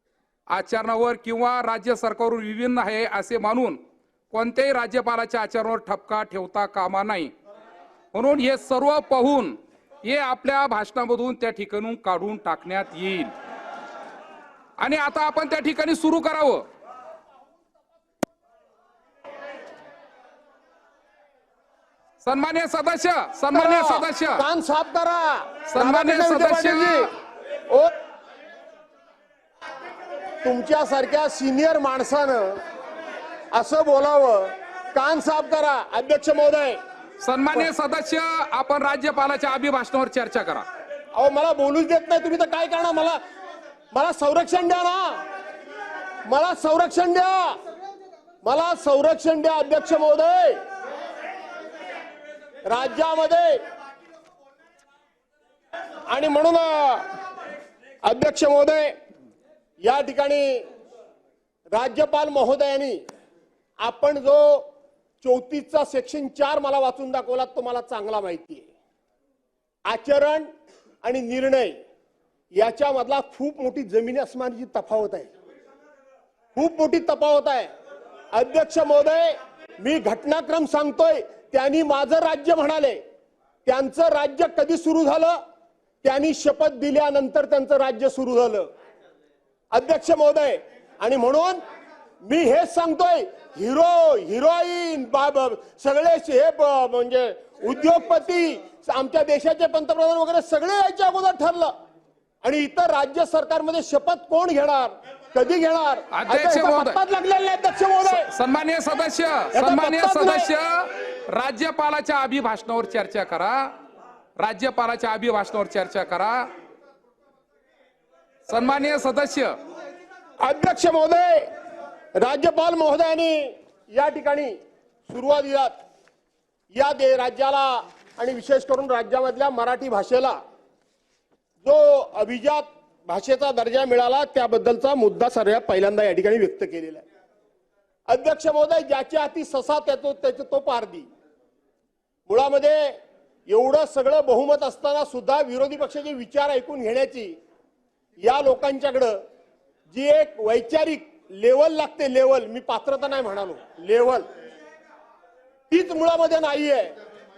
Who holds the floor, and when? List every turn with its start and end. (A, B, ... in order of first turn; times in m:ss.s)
0:00.5-0:03.8 A
0:04.3-0:07.3 A
0:08.1-0:13.3 A
0:14.8-0:16.6 A
0:22.2-0:24.4 A
0:23.5-0:27.1 B
0:25.7-0:27.1 A
0:30.4-0:32.6 B
0:33.5-0:36.8 B
0:37.2-0:40.6 A
0:41.1-0:43.2 B
0:43.9-0:45.2 B
0:46.3-0:47.6 B
0:48.4-0:50.6 B
0:52.6-0:53.6 B
0:56.1-0:57.2 B
0:58.0-0:59.0 B
0:59.8-1:00.7 B
1:01.7-1:03.0 B
1:03.8-1:04.7 B
1:05.2-1:08.7 B
1:09.8-1:10.5 B
1:11.0-1:11.8 B
1:12.5-1:15.3 B
1:16.5-1:17.7 B
1:18.3-1:23.0 B
1:23.6-1:25.4 B
1:26.0-1:28.7 B
1:29.7-1:31.6 B
1:32.2-1:41.7 B
1:42.4-1:48.3 B
1:46.1-1:47.0 A
1:48.0-1:53.7 A
1:49.5-1:50.5 B
1:54.4-1:56.5 A
1:58.5-1:59.6 A
2:00.4-2:01.5 B
2:02.2-2:05.8 B
2:06.7-2:10.4 B
2:11.6-2:17.0 B
2:18.1-2:21.1 B
2:22.3-2:27.4 B
2:28.2-2:29.2 B
2:29.9-2:34.2 B
2:35.7-2:37.0 B